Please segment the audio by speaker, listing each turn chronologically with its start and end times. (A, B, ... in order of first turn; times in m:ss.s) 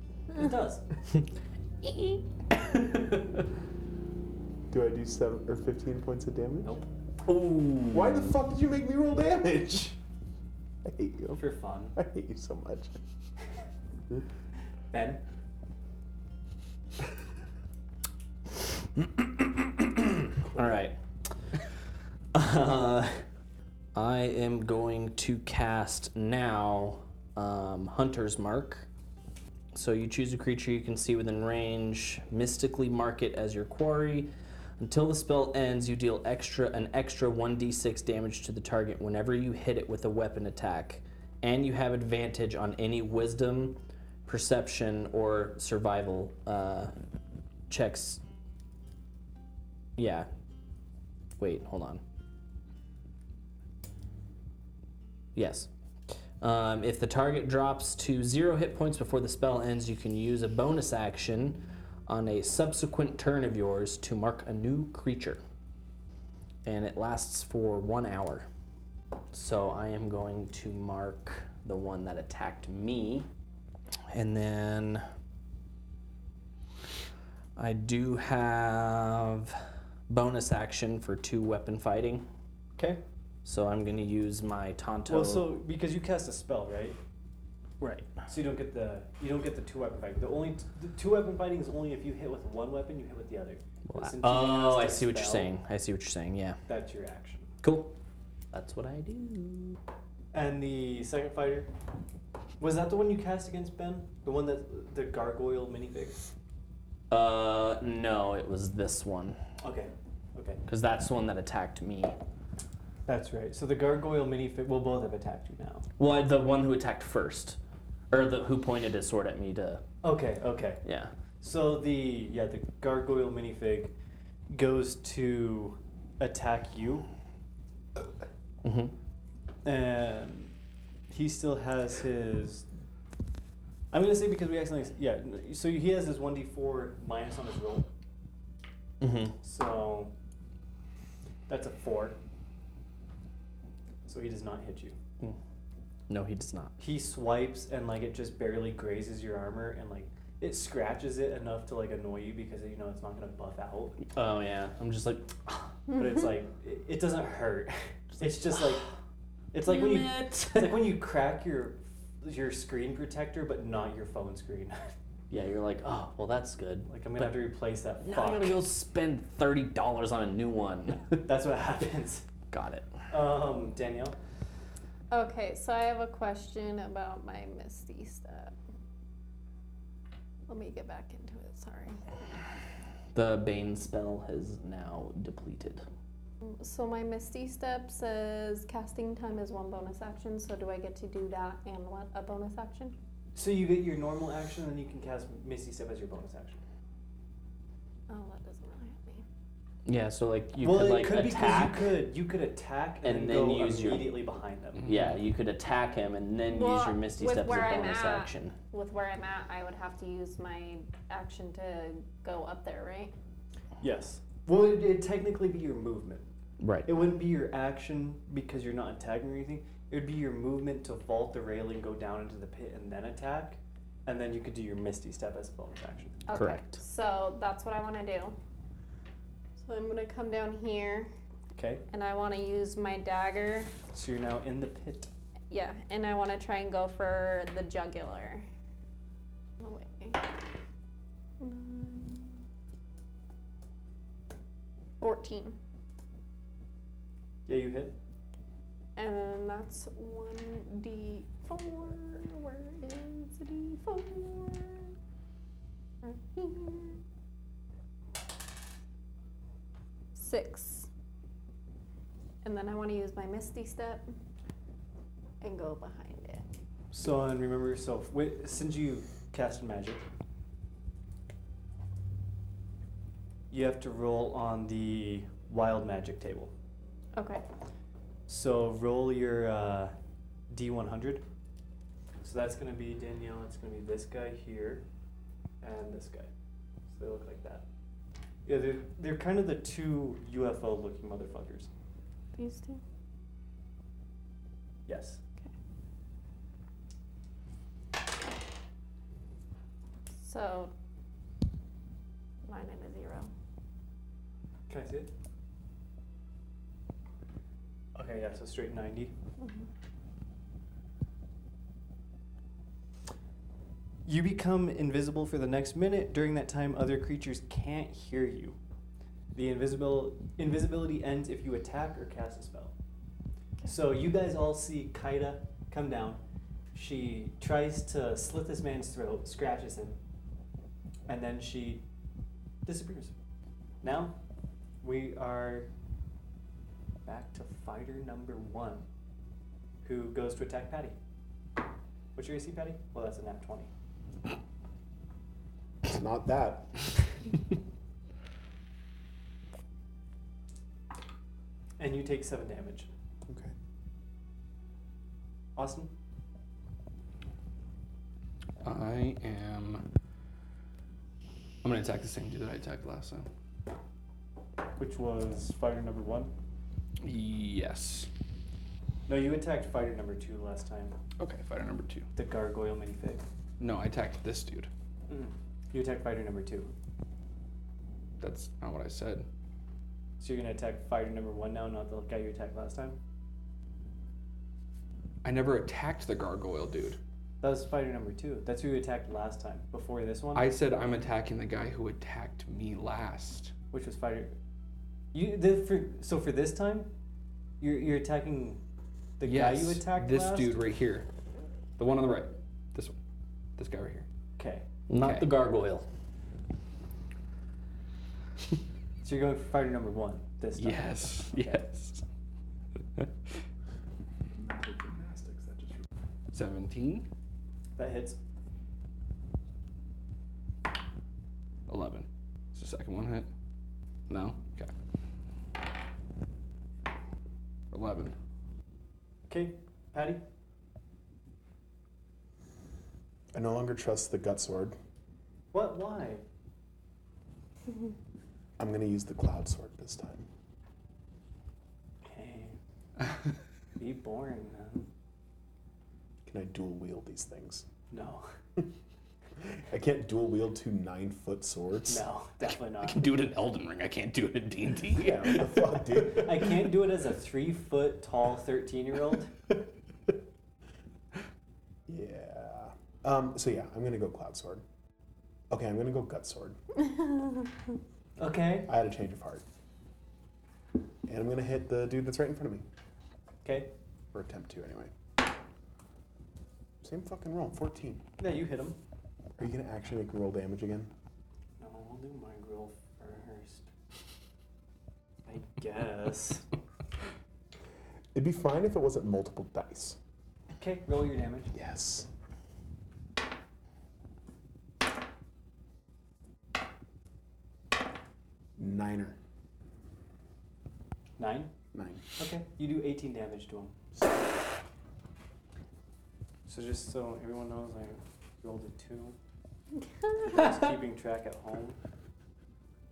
0:00.3-0:00.9 A
0:04.7-0:06.8 B
0:07.3-0:08.2 C
0:07.9-0:10.0 B
0:10.8-0:11.4 B
0:11.3-0:12.0 A
0:11.9-0:13.0 B
0:14.9-0:15.2 A
0:20.5-0:21.0 C
0:22.3-0:23.2 C
0:24.0-0:28.9 C
0:29.7-0:46.9 C
0:47.7-0:48.2 C
0:50.0-0:50.3 C
0:51.4-0:52.0 C
0:55.3-0:55.7 C
0:56.4-1:05.4 C
1:06.6-1:08.5 C
1:09.3-1:13.3 C
1:14.1-1:15.0 C
1:17.6-1:22.3 C
1:22.8-1:23.0 A
1:23.4-1:25.6 C
1:25.1-1:27.0 A
1:27.8-1:28.1 C
1:28.3-1:35.5 A
1:33.9-1:36.6 C
1:36.7-1:37.5 A
1:37.6-1:38.0 C
1:38.5-1:39.8 C
1:40.3-1:41.7 A
1:42.6-1:46.2 A
1:47.1-1:49.4 C
1:49.6-1:50.6 A
1:50.7-1:52.2 C
1:53.0-1:55.9 A
1:56.0-1:57.6 C
1:58.1-1:59.8 C
2:00.0-2:00.8 A
2:00.8-2:01.1 C
2:01.4-2:03.9 A
2:04.5-2:07.1 A
2:08.6-2:08.9 C
2:09.6-2:10.5 A
2:11.1-2:12.7 A
2:13.9-2:17.9 A
2:19.0-2:19.4 C
2:19.4-2:20.1 A
2:21.5-2:22.2 A
2:24.0-2:25.0 A
2:26.1-2:26.8 C
2:26.8-2:34.0 A
2:34.1-2:35.7 C
2:35.9-2:38.9 A
2:38.2-2:38.7 C
2:39.5-2:44.9 A
2:39.6-2:40.9 C
2:45.3-2:47.5 C
2:46.9-2:48.6 A
2:48.0-2:51.2 C
2:51.2-2:52.2 A
2:52.5-2:53.0 C
2:53.1-2:54.2 A
2:55.1-2:58.5 D
3:00.5-3:02.0 D
3:03.1-3:05.8 C
3:06.4-3:13.0 D
3:13.4-3:16.6 A
3:18.1-3:19.2 D
3:19.9-3:21.9 C
3:20.6-3:24.9 A
3:23.0-3:24.2 C
3:24.8-3:25.2 E
3:24.9-3:28.6 C
3:26.5-3:33.1 D
3:33.8-3:36.3 A
3:36.6-3:36.9 C
3:36.8-3:46.2 A
3:46.3-3:48.4 D
3:46.3-3:46.8 C
3:49.6-3:51.1 D
3:51.6-3:51.8 A
3:51.9-3:53.7 D
3:53.9-3:55.1 A
3:55.5-3:58.4 D
3:59.6-4:00.3 D
4:01.4-4:02.4 D
4:05.0-4:05.6 D
4:07.5-4:08.0 A
4:09.0-4:14.9 D
4:16.0-4:17.0 D
4:20.2-4:20.9 D
4:22.4-4:24.0 D
4:25.4-4:26.4 D
4:26.9-4:30.0 A
4:33.5-4:36.5 A
4:37.1-4:37.4 D
4:38.3-4:39.9 A
4:40.5-4:41.2 A
4:42.2-4:44.9 A
4:45.6-4:46.3 A
4:46.9-4:47.6 A
4:48.4-4:51.7 A
4:52.4-4:52.8 D
4:54.9-4:55.2 A
5:00.2-5:00.7 D
5:02.4-5:03.3 D
5:04.7-5:05.1 A
5:08.0-5:09.1 A
5:09.4-5:09.7 D
5:14.0-5:18.6 A
5:19.3-5:22.7 A
5:23.6-5:26.2 A
5:26.7-5:30.0 A
5:31.1-5:31.8 A
5:32.6-5:33.1 A
5:33.8-5:34.2 A
5:34.8-5:35.7 A
5:37.0-5:38.9 A
5:39.8-5:41.0 A
5:42.1-5:43.7 A
5:45.8-5:46.8 B
5:51.8-5:52.9 A
5:53.3-5:53.5 B
5:55.6-5:55.9 A
5:58.6-5:59.9 E
6:01.6-6:03.3 E
6:04.8-6:06.3 A
6:07.0-6:08.1 E
6:09.1-6:11.0 A
6:11.2-6:12.1 E
6:12.1-6:13.2 A
6:13.6-6:14.7 E
6:15.1-6:16.7 A
6:18.2-6:19.3 E
6:20.2-6:23.0 A
6:25.2-6:27.0 E
6:27.4-6:30.5 A
6:30.3-6:33.5 E
6:33.7-6:34.4 A
6:35.1-6:36.9 A
6:37.6-6:38.6 A
6:39.2-6:40.6 A
6:39.2-6:41.1 E
6:41.8-6:43.0 E
6:43.6-6:44.0 E
6:44.4-6:44.7 A
6:44.9-6:45.9 C
6:45.0-6:45.3 E
6:49.0-6:51.6 A
6:50.6-6:52.0 E
6:54.4-6:55.9 B
6:56.3-6:57.1 E
6:57.8-6:58.2 A
7:01.7-7:03.3 E
7:04.1-7:04.7 E
7:07.7-7:08.1 E
7:09.3-7:10.2 A
7:13.3-7:14.8 B
7:15.5-7:16.2 A
7:18.6-7:20.3 B
7:22.0-7:22.6 A
7:23.8-7:24.9 A
7:26.3-7:27.7 B
7:27.9-7:28.3 A
7:29.4-7:32.0 B
7:31.9-7:33.0 A
7:32.9-7:35.4 C
7:35.0-7:36.5 B
7:35.9-7:39.3 A
7:41.9-7:44.6 B
7:45.5-7:46.6 B
7:48.2-7:48.7 A
7:48.7-7:49.4 B
7:51.0-7:52.6 B
7:53.4-7:53.7 A
7:54.1-7:54.9 B
7:56.8-7:58.0 B
7:58.2-7:58.8 A
7:59.4-8:00.9 B
8:01.6-8:03.7 A
8:05.3-8:06.5 A
8:08.1-8:10.0 B
8:10.6-8:11.5 A
8:11.5-8:12.1 B
8:18.6-8:19.2 B
8:21.2-8:21.5 A
8:21.7-8:22.0 B
8:22.2-8:23.8 A
8:26.5-8:29.2 A
8:30.2-8:31.8 A